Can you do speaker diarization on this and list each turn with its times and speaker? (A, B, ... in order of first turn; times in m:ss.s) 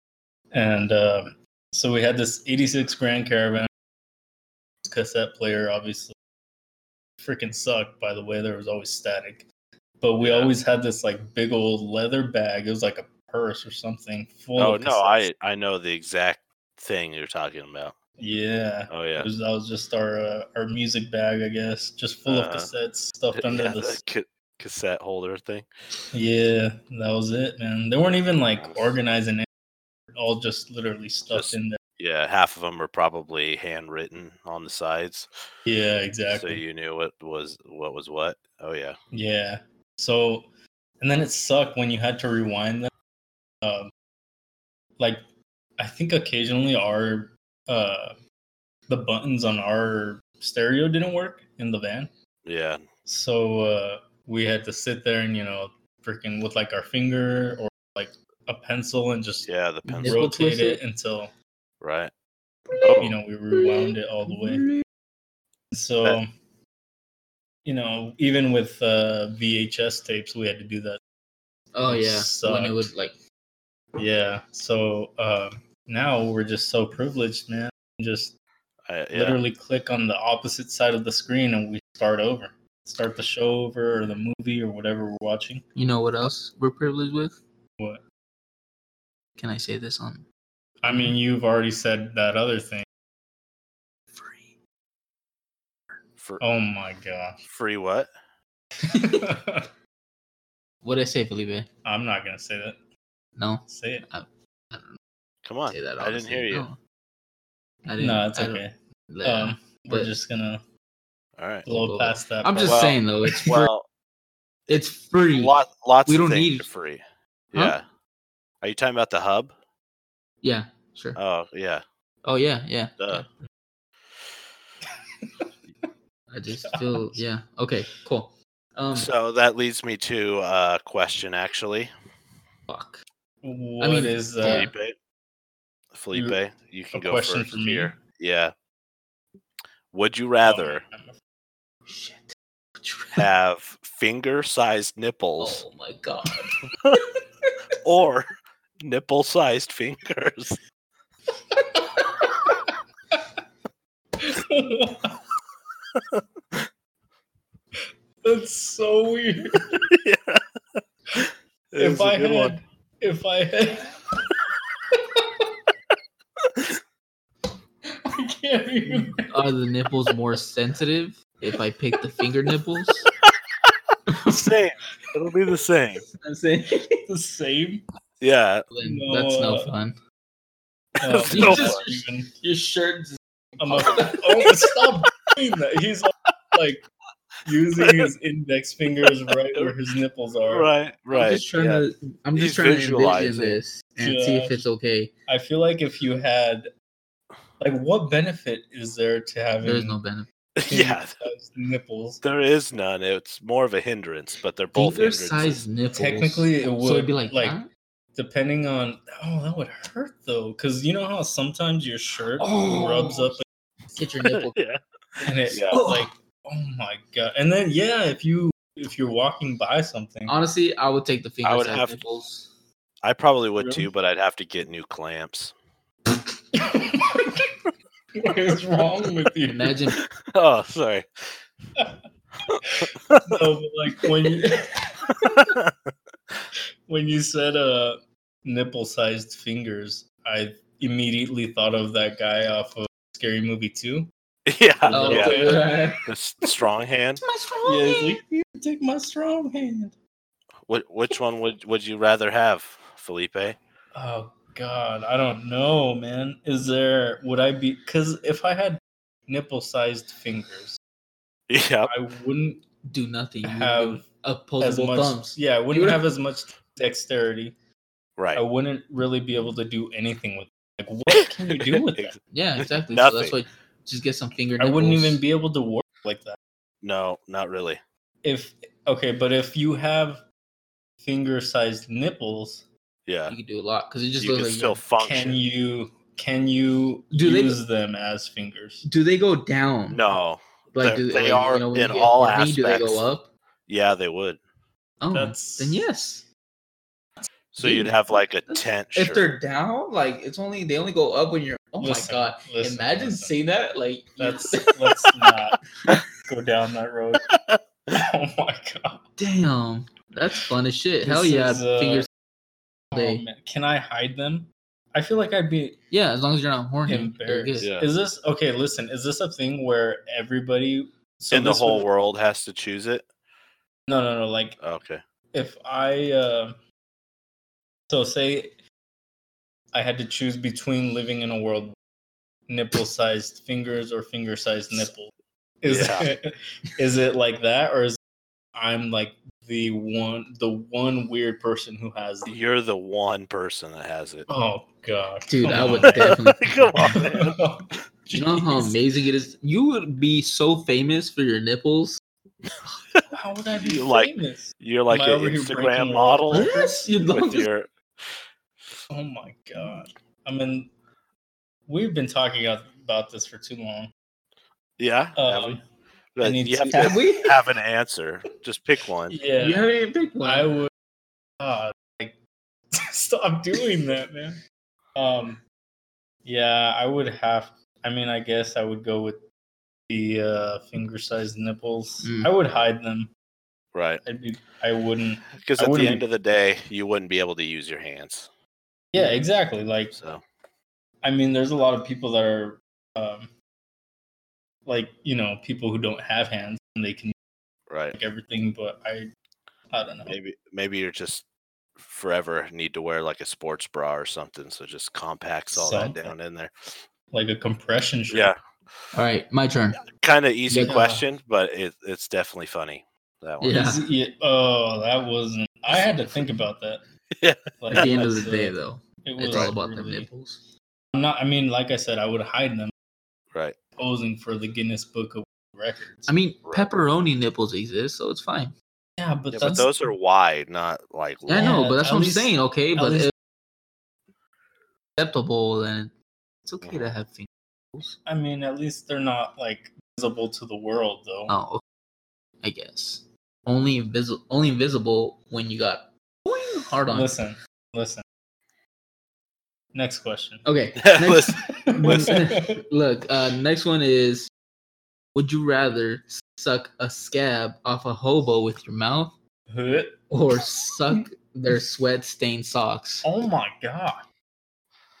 0:00.5-0:03.7 A
0:04.8-0:06.1 A
0:07.2-0:09.5 A
0:10.0-0:15.2 A
0:10.2-0:10.5 B
0:14.6-0:18.0 B
0:18.2-0:24.0 A
0:18.9-0:19.3 B
0:22.2-0:22.7 B
0:23.3-0:25.7 B
0:26.1-0:29.5 A
0:28.6-0:28.9 B
0:30.1-0:31.8 A
0:31.3-0:35.3 B
0:35.6-0:36.6 A
0:36.3-0:39.0 B
0:39.1-0:40.5 A
0:41.0-0:42.9 A
0:43.6-0:43.9 A
0:45.0-0:45.2 A
0:45.8-0:48.2 A
0:48.9-0:52.1 A
0:52.4-0:52.8 B
0:53.0-0:59.5 A
0:59.4-1:00.3 B
0:59.8-1:00.8 C
1:00.0-1:01.3 A
1:01.8-1:02.1 B
1:02.8-1:03.2 B
1:03.0-1:04.7 A
1:03.5-1:04.8 C
1:05.7-1:06.3 A
1:07.6-1:11.0 A
1:11.7-1:13.2 C
1:11.8-1:12.9 A
1:14.0-1:18.4 A
1:18.9-1:19.4 B
1:19.1-1:25.6 A
1:25.7-1:27.4 C
1:29.4-1:30.2 C
1:30.8-1:32.8 A
1:34.1-1:34.6 C
1:36.4-1:37.4 A
1:37.4-1:38.1 B
1:38.9-1:39.7 A
1:40.8-1:41.7 C
1:41.8-1:42.8 A
1:43.4-1:45.0 C
1:43.7-1:44.1 A
1:45.4-1:46.7 B
1:45.7-1:46.8 C
1:47.8-1:50.1 C
1:48.0-1:50.6 A
1:51.4-1:51.6 B
1:51.6-1:53.6 A
1:51.7-1:53.7 C
1:52.6-1:53.9 B
1:54.7-1:56.7 C
1:55.3-1:57.0 B
1:57.5-1:57.8 B
1:58.6-1:59.5 B
2:00.4-2:01.2 C
2:01.2-2:01.8 B
2:02.2-2:03.3 C
2:03.0-2:03.2 B
2:05.2-2:05.4 A
2:06.3-2:09.1 C
2:06.6-2:07.2 A
2:08.9-2:11.9 B
2:12.7-2:13.0 C
2:13.4-2:14.7 A
2:13.8-2:14.7 C
2:14.4-2:15.0 B
2:15.9-2:18.5 B
2:16.1-2:16.4 A
2:16.9-2:18.0 A
2:19.9-2:20.8 B
2:20.4-2:21.1 A
2:21.8-2:23.2 C
2:23.1-2:25.6 B
2:25.4-2:26.6 C
2:27.8-2:28.3 B
2:28.8-2:30.6 B
2:34.2-2:35.2 A
2:38.2-2:39.9 A
2:39.9-2:42.6 B
2:41.2-2:44.2 A
2:44.9-2:45.5 A
2:48.0-2:49.3 A
2:49.2-2:53.0 C
2:54.1-2:54.5 C
2:54.3-2:56.0 B
2:56.2-2:57.0 C
2:57.0-2:57.8 A
2:58.2-2:58.7 B
2:58.7-3:00.0 C
2:58.8-2:59.7 A
3:01.0-3:02.3 A
3:01.1-3:01.8 B
3:01.1-3:04.6 C
3:03.6-3:06.8 A
3:07.4-3:10.7 A
3:07.8-3:08.1 B
3:10.4-3:13.6 B
3:11.1-3:15.1 C
3:14.0-3:14.6 A
3:15.3-3:16.7 A
3:17.6-3:20.0 A
3:19.6-3:20.3 C
3:20.6-3:21.2 B
3:20.7-3:22.2 A
3:22.2-3:25.6 B
3:24.7-3:27.7 C
3:25.9-3:27.6 A
3:28.1-3:33.4 A
3:32.4-3:33.4 C
3:34.0-3:34.5 C
3:34.3-3:34.8 B
3:35.2-3:40.3 A
3:35.5-3:35.8 B
3:35.7-3:36.1 C
3:40.3-3:42.5 C
3:41.4-3:42.0 B
3:43.0-3:45.5 B
3:43.6-3:43.9 A
3:46.5-3:47.6 A
3:48.2-3:49.8 A
3:49.5-3:50.0 C
3:50.1-3:51.4 B
3:52.7-3:55.6 A
3:52.8-3:53.4 B
3:55.1-3:55.9 B
3:56.9-4:04.1 A
4:04.4-4:07.2 B
4:04.8-4:06.0 A
4:04.9-4:06.0 C
4:07.2-4:08.2 C
4:07.6-4:10.0 A
4:10.6-4:13.6 B
4:13.9-4:20.8 A
4:21.5-4:21.9 B
4:21.9-4:22.6 A
4:22.8-4:26.0 C
4:23.4-4:24.0 A
4:24.6-4:27.5 A
4:28.2-4:28.4 B
4:28.3-4:32.1 A
4:31.1-4:33.4 B
4:32.3-4:35.2 C
4:34.6-4:36.4 A
4:36.8-4:37.8 B
4:38.2-4:40.2 A
4:41.0-4:42.7 A
4:43.0-4:43.4 B
4:43.3-4:44.8 C
4:44.2-4:45.4 B
4:45.0-4:48.8 A
4:47.1-4:47.6 C
4:48.8-4:50.0 C
4:49.9-4:53.0 B
4:50.7-4:53.3 C
4:53.7-4:54.4 B
4:55.0-4:56.2 C
4:55.1-4:55.8 A
4:57.5-4:59.3 B
4:57.6-4:57.9 C
4:58.4-5:05.1 C
5:01.8-5:03.3 A
5:04.2-5:07.3 A
5:07.3-5:08.0 B
5:07.9-5:09.0 A
5:09.2-5:12.1 C
5:11.0-5:12.1 A
5:12.9-5:15.8 A
5:12.9-5:13.2 C
5:15.9-5:17.7 C
5:16.9-5:21.9 A
5:17.6-5:17.9 B
5:21.3-5:23.1 B
5:23.9-5:24.6 A
5:24.6-5:25.0 B
5:25.3-5:26.6 A
5:27.9-5:28.6 A
5:29.7-5:31.8 A
5:32.5-5:38.0 A
5:35.6-5:36.1 B
5:38.5-5:42.4 A
5:42.2-5:44.3 B
5:44.3-5:46.2 A
5:45.3-5:47.0 C
5:45.6-5:47.4 B
5:46.9-5:48.7 A
5:48.1-5:52.0 C
5:53.1-5:56.9 A
5:53.6-5:56.5 B
5:56.3-5:57.5 C
5:57.1-5:57.7 B
5:58.9-6:00.7 A
6:01.7-6:03.9 A
6:04.8-6:05.6 B
6:05.2-6:05.6 A
6:06.1-6:09.2 B
6:06.2-6:07.0 A
6:06.7-6:07.4 C
6:09.1-6:10.7 A
6:09.4-6:10.5 C
6:11.4-6:12.2 A
6:12.7-6:14.4 A
6:15.0-6:15.4 A
6:16.2-6:19.2 A
6:19.9-6:23.1 A
6:22.0-6:22.3 C
6:23.7-6:24.0 B
6:24.0-6:26.0 A
6:25.4-6:28.3 B
6:28.9-6:30.0 A
6:29.9-6:30.2 B
6:31.0-6:33.3 A
6:34.6-6:37.1 A
6:37.7-6:38.0 B
6:37.9-6:39.1 A
6:39.7-6:40.2 A
6:40.0-6:41.2 B
6:41.8-6:46.8 B
6:45.5-6:46.1 A
6:47.1-6:48.3 A
6:48.1-6:48.4 B
6:48.9-6:49.8 C
6:49.8-6:53.6 B
6:50.5-6:50.8 C
6:50.6-6:51.0 A
6:53.4-6:53.9 C
6:53.5-6:56.8 A
6:55.7-6:56.3 B
6:57.1-6:58.0 B
6:57.6-7:00.1 A
6:57.7-7:00.5 C
7:00.9-7:02.7 A
7:03.8-7:06.1 A
7:06.1-7:08.5 C
7:09.0-7:09.8 A
7:09.3-7:11.6 B
7:11.3-7:13.1 C
7:11.3-7:13.1 A
7:15.0-7:15.9 C
7:16.4-7:18.0 C
7:16.6-7:16.9 B
7:18.0-7:21.3 A
7:21.3-7:21.6 C
7:22.4-7:27.1 C
7:26.9-7:28.0 A
7:29.7-7:30.4 A
7:30.4-7:34.3 C
7:30.8-7:32.1 B
7:31.5-7:32.6 A
7:35.1-7:39.2 C
7:39.5-7:40.1 A
7:40.1-7:43.1 C
7:43.0-7:44.0 A